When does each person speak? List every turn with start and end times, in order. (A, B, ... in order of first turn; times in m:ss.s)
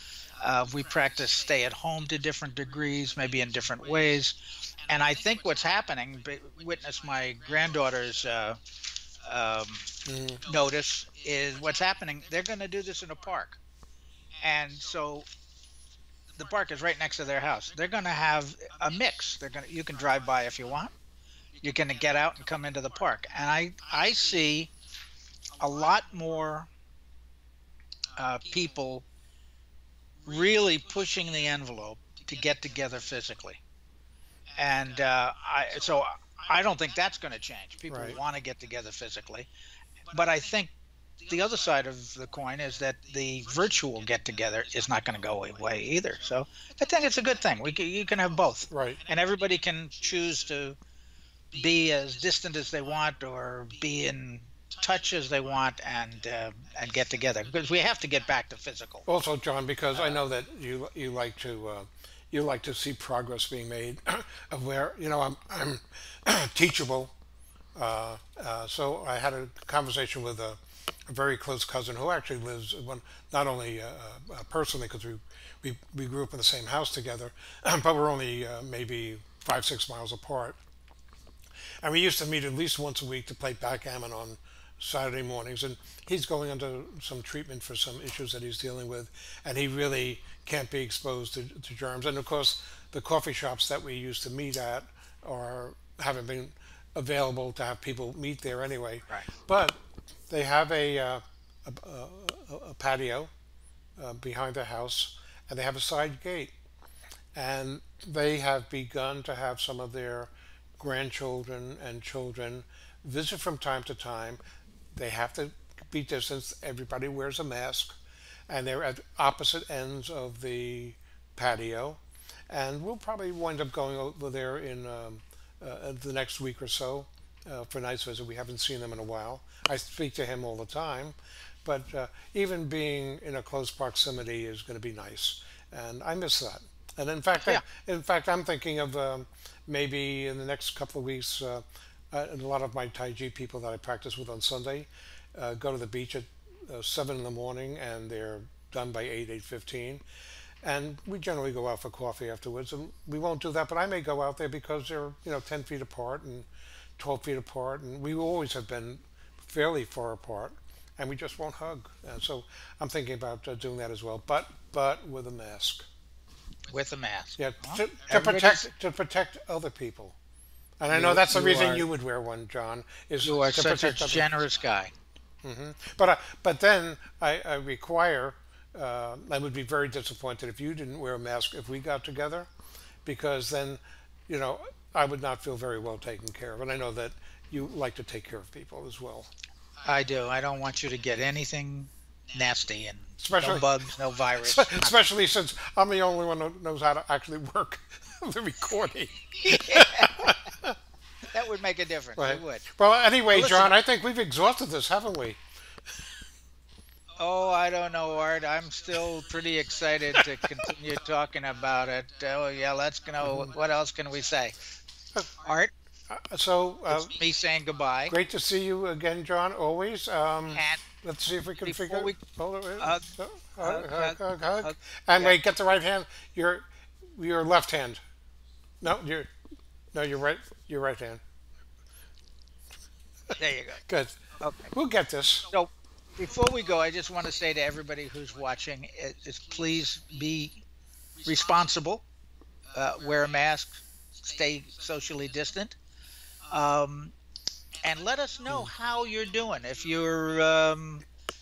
0:00.4-0:08.6 A
0:09.2-0:09.9 A
0:10.0-0:10.4 B
0:10.4-0:13.6 A
0:14.4-0:15.3 A
0:16.4-0:20.9 A
0:21.6-0:24.7 A
0:25.6-0:26.7 A
0:28.1-0:29.0 A
0:30.2-0:33.6 A
0:34.6-0:39.5 A
0:37.9-0:38.2 B
0:40.1-0:40.7 A
0:41.3-0:50.8 A
0:48.7-0:49.0 B
0:51.5-0:59.0 A
0:59.1-1:07.1 B
0:59.9-1:00.2 A
1:07.8-1:20.6 B
1:21.8-1:43.3 B
1:44.0-1:46.5 B
1:47.4-1:54.4 B
1:54.9-1:57.9 B
1:58.5-2:30.0 B
2:30.6-2:36.5 B
2:37.0-2:45.8 B
2:46.7-2:48.7 A
2:47.4-2:50.2 B
2:50.8-2:54.3 B
2:50.9-2:51.9 A
2:53.2-2:54.9 A
2:55.4-3:02.5 B
3:03.0-3:09.3 B
3:09.8-3:15.1 A
3:13.2-3:13.7 B
3:14.4-3:20.8 B
3:19.4-3:20.3 A
3:21.3-3:22.7 A
3:22.2-3:25.4 B
3:23.3-3:23.7 A
3:27.2-3:34.6 A
3:33.2-3:33.5 B
3:35.4-3:35.7 A
3:36.1-3:37.1 B
3:36.9-3:38.1 A
3:38.1-3:48.0 B
3:40.5-3:40.8 A
3:41.6-3:42.2 A
3:42.8-3:43.0 A
3:43.6-3:45.4 A
3:48.8-3:49.3 B
3:49.9-3:51.2 B
3:53.4-3:53.8 A
3:53.9-3:54.2 B
3:54.4-3:54.7 A
3:54.7-3:55.5 B
3:55.5-4:00.6 A
4:01.2-4:02.0 A
4:02.7-4:05.8 A
4:06.5-4:07.1 A
4:07.8-4:11.0 A